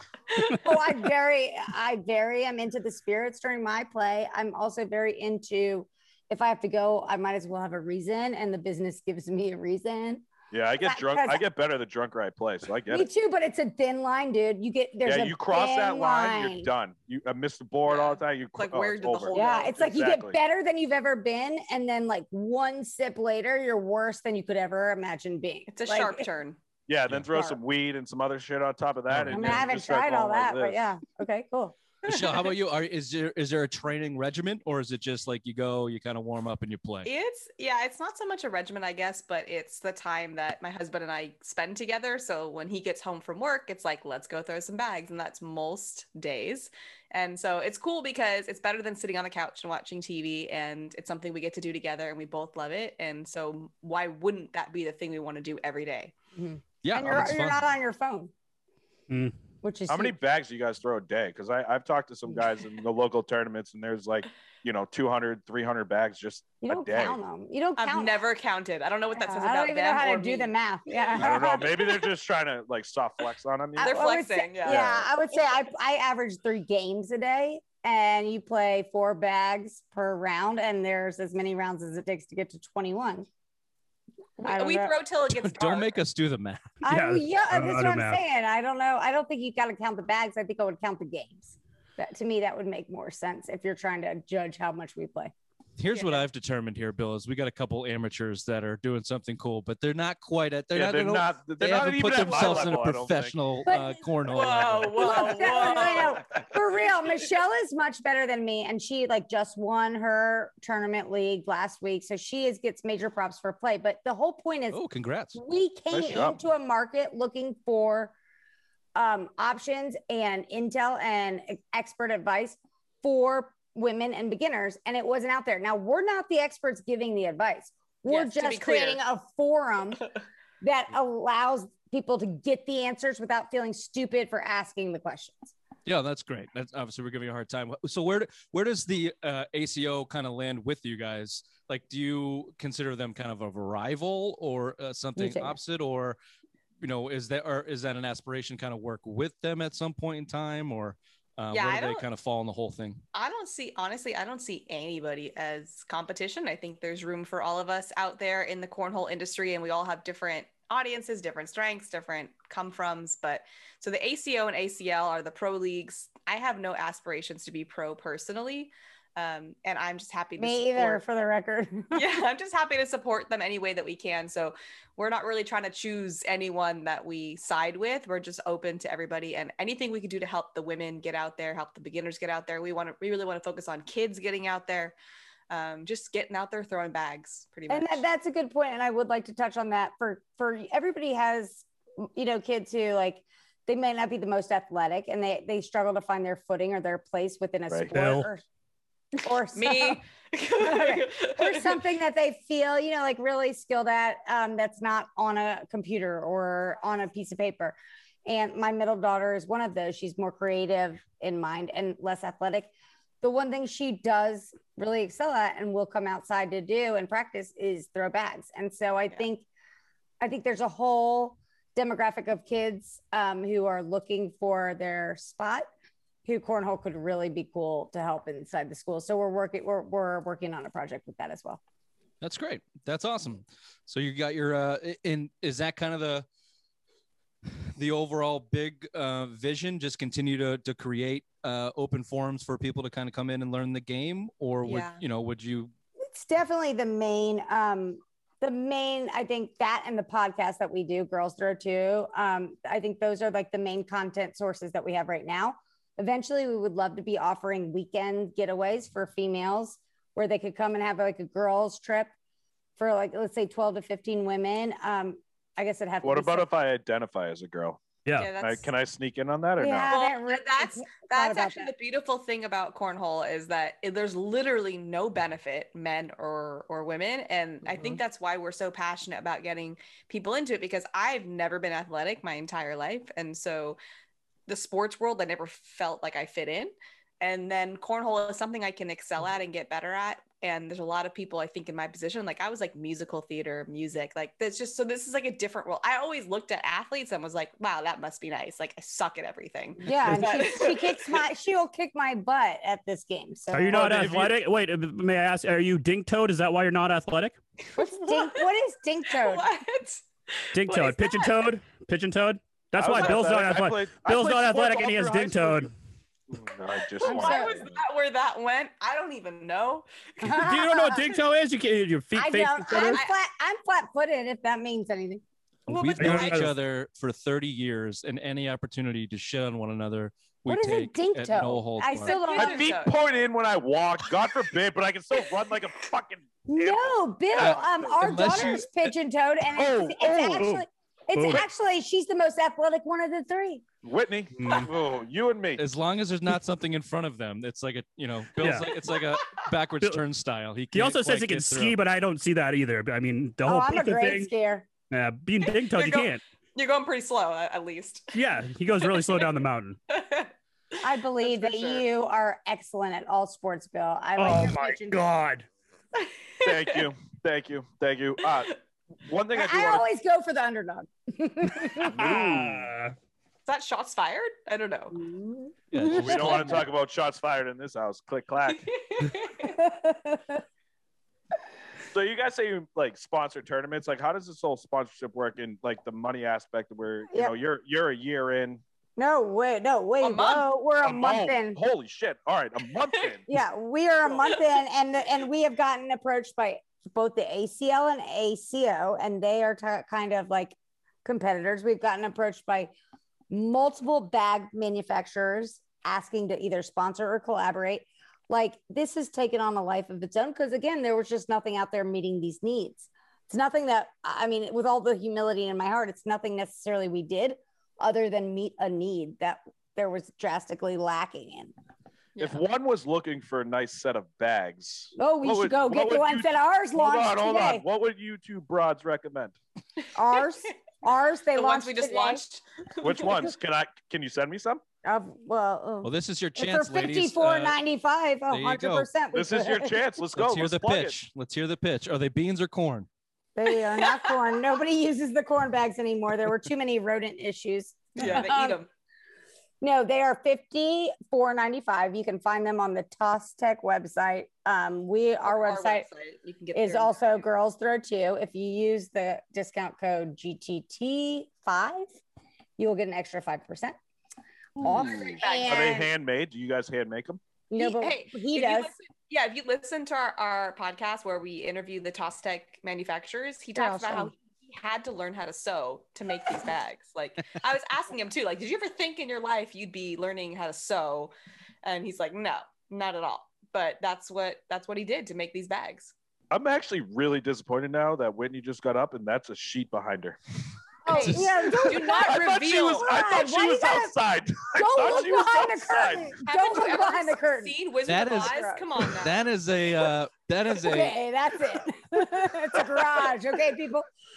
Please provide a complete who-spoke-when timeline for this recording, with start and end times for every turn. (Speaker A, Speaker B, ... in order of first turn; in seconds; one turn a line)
Speaker A: 0.3-0.6
Speaker B: 0.4-10.3
Speaker C: 10.5-13.1
Speaker B: 10.8-11.4
Speaker B: 12.9-16.7
Speaker C: 15.0-20.4
Speaker A: 17.9-19.8
Speaker B: 19.3-26.2
Speaker A: 25.7-26.6
Speaker C: 26.9-30.8
Speaker B: 27.3-27.6
Speaker D: 29.1-29.7
Speaker B: 29.3-31.7
Speaker D: 32.0-37.1
Speaker A: 37.0-56.1
Speaker B: 56.3-58.3
Speaker D: 56.8-57.6
Speaker E: 59.1-59.4
Speaker B: 59.6-60.2
Speaker C: 59.9-67.2
Speaker B: 66.6-68.2
Speaker A: 67.8-70.5
Speaker B: 69.1-72.0
Speaker C: 71.2-75.1
Speaker A: 71.2-71.6
Speaker B: 73.8-83.3
Speaker A: 73.8-74.8
Speaker B: 84.4-84.9
Speaker A: 84.4-86.0
Speaker D: 85.3-86.7
Speaker B: 86.8-95.3
Speaker E: 86.9-88.2
Speaker D: 95.8-105.4
Speaker A: 95.9-96.2
Speaker C: 100.7-103.3
Speaker A: 102.2-102.8
Speaker B: 103.6-104.0
Speaker A: 104.3-106.2
Speaker B: 105.0-114.8
Speaker D: 114.7-115.4
Speaker B: 115.3-118.1
Speaker C: 115.9-116.4
Speaker B: 118.9-130.0
Speaker A: 128.1-129.0
Speaker B: 130.6-135.5
Speaker D: 135.8-146.2
Speaker B: 145.2-145.6
Speaker D: 146.8-153.0
Speaker A: 151.5-152.1
Speaker A: 153.1-171.0
Speaker B: 170.4-172.1
Speaker A: 171.9-184.9
Speaker A: 185.5-188.0
Speaker B: 187.7-198.4
Speaker E: 197.9-198.3
Speaker B: 199.2-200.0
Speaker A: 199.5-201.8
Speaker B: 200.6-219.4
Speaker B: 220.2-225.7
Speaker B: 226.2-231.6
Speaker D: 232.2-236.2
Speaker D: 237.8-245.7
Speaker A: 244.6-245.0
Speaker B: 246.0-262.1
Speaker B: 262.8-266.5
Speaker C: 266.0-267.8
Speaker E: 268.0-268.3
Speaker A: 268.2-268.7
Speaker C: 268.3-269.9
Speaker B: 269.6-271.7
Speaker A: 269.9-283.8
Speaker A: 284.5-301.2
Speaker B: 299.8-304.1
Speaker E: 303.5-307.4
Speaker C: 303.7-304.4
Speaker A: 307.7-308.5
Speaker B: 307.8-309.4
Speaker A: 309.1-311.4
Speaker E: 310.5-315.7
Speaker C: 312.8-315.7
Speaker C: 316.3-317.8
Speaker A: 317.0-320.5
Speaker B: 317.0-317.6
Speaker B: 320.2-321.1
Speaker E: 320.2-323.0
Speaker B: 322.1-325.2
Speaker A: 322.7-323.1
Speaker A: 325.7-326.5
Speaker D: 325.7-332.2
Speaker E: 326.0-326.5
Speaker B: 330.4-332.7
Speaker A: 331.9-333.0
Speaker C: 332.3-338.4
Speaker B: 336.5-343.6
Speaker D: 337.4-338.9
Speaker C: 339.5-340.5
Speaker E: 340.4-341.4
Speaker C: 343.8-345.6
Speaker E: 344.4-344.7
Speaker D: 345.6-351.8
Speaker E: 348.4-348.8
Speaker A: 348.9-349.2
Speaker E: 350.7-354.3
Speaker B: 353.4-354.7
Speaker E: 354.9-356.2
Speaker A: 355.4-358.2
Speaker E: 358.1-359.8
Speaker A: 358.8-359.2
Speaker A: 359.9-360.3
Speaker B: 360.8-365.1
Speaker A: 361.2-361.8
Speaker E: 364.2-365.4
Speaker A: 365.9-366.9
Speaker C: 366.4-369.8
Speaker B: 369.3-372.4
Speaker E: 371.8-372.9
Speaker C: 372.0-372.4
Speaker A: 373.4-375.0
Speaker B: 374.9-376.4
Speaker D: 375.7-376.6
Speaker C: 375.9-378.7
Speaker A: 378.5-379.6
Speaker B: 379.4-380.4
Speaker C: 381.9-388.6
Speaker B: 389.0-391.6
Speaker A: 390.0-390.5
Speaker C: 390.8-393.2
Speaker B: 393.3-402.7
Speaker B: 403.3-421.5
Speaker C: 422.2-429.4
Speaker B: 424.9-427.6
Speaker A: 429.8-430.2
Speaker B: 429.9-432.2
Speaker A: 431.3-433.2
Speaker C: 432.8-434.6
Speaker B: 434.8-439.8
Speaker D: 435.8-437.6
Speaker D: 438.3-438.9
Speaker C: 439.1-440.9
Speaker D: 440.1-442.9
Speaker B: 443.4-448.6
Speaker A: 447.9-448.7
Speaker B: 449.6-455.9
Speaker A: 455.2-457.2
Speaker B: 456.5-461.9
Speaker B: 462.6-463.8
Speaker B: 464.6-465.9
Speaker A: 464.6-465.8
Speaker C: 464.6-467.2
Speaker B: 467.5-468.7
Speaker A: 467.6-481.1
Speaker B: 473.6-474.1
Speaker A: 481.6-485.9
Speaker C: 486.3-490.2
Speaker B: 490.8-497.6
Speaker D: 490.9-491.5
Speaker A: 491.6-493.1
Speaker C: 491.9-496.1
Speaker A: 496.2-499.2
Speaker D: 497.9-501.0
Speaker B: 498.1-498.7
Speaker B: 500.6-503.9